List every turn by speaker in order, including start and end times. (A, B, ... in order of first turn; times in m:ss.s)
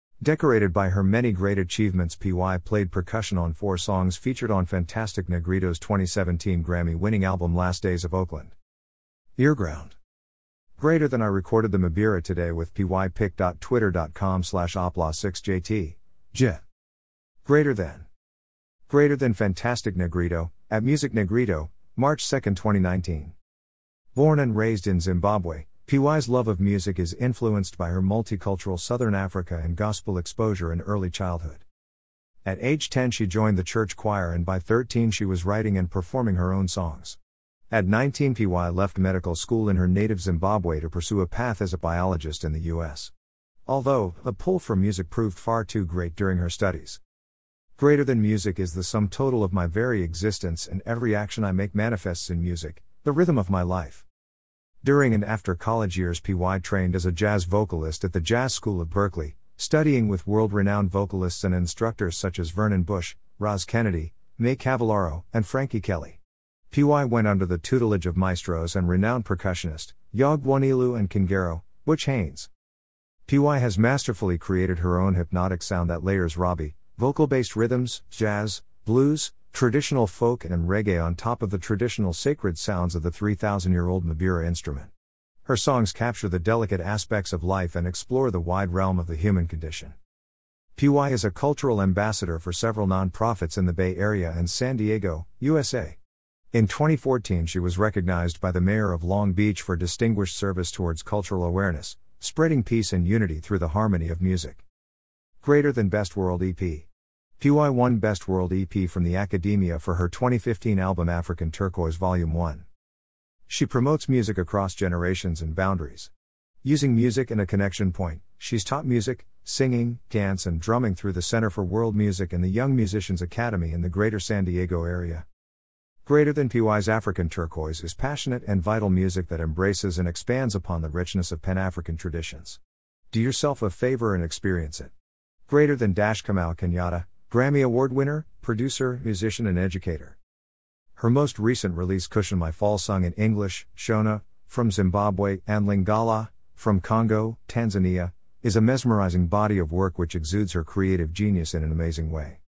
0:00.2-0:08.5 A
0:09.4-0:10.0 A
0:10.8-0:16.6 A
0:17.4-0:18.1 A
0:18.9-0:23.4 A
0:24.2-0:31.6 A
0:32.4-0:37.2 A
0:37.7-0:43.1 A
0:43.7-0:47.0 A
0:47.8-0:54.0 A
0:54.8-1:06.2 A
1:06.7-1:12.5 A
1:13.3-1:24.9 A
1:25.5-1:30.0 A
1:30.8-1:36.0 A
1:36.5-1:44.6 A
1:45.4-1:46.9 A
1:47.4-1:52.6 A
1:53.5-1:56.1 A
1:56.6-2:05.3 A
2:06.1-2:12.6 A
2:13.1-2:14.9 A
2:15.5-2:20.2 A
2:21.0-2:32.4 A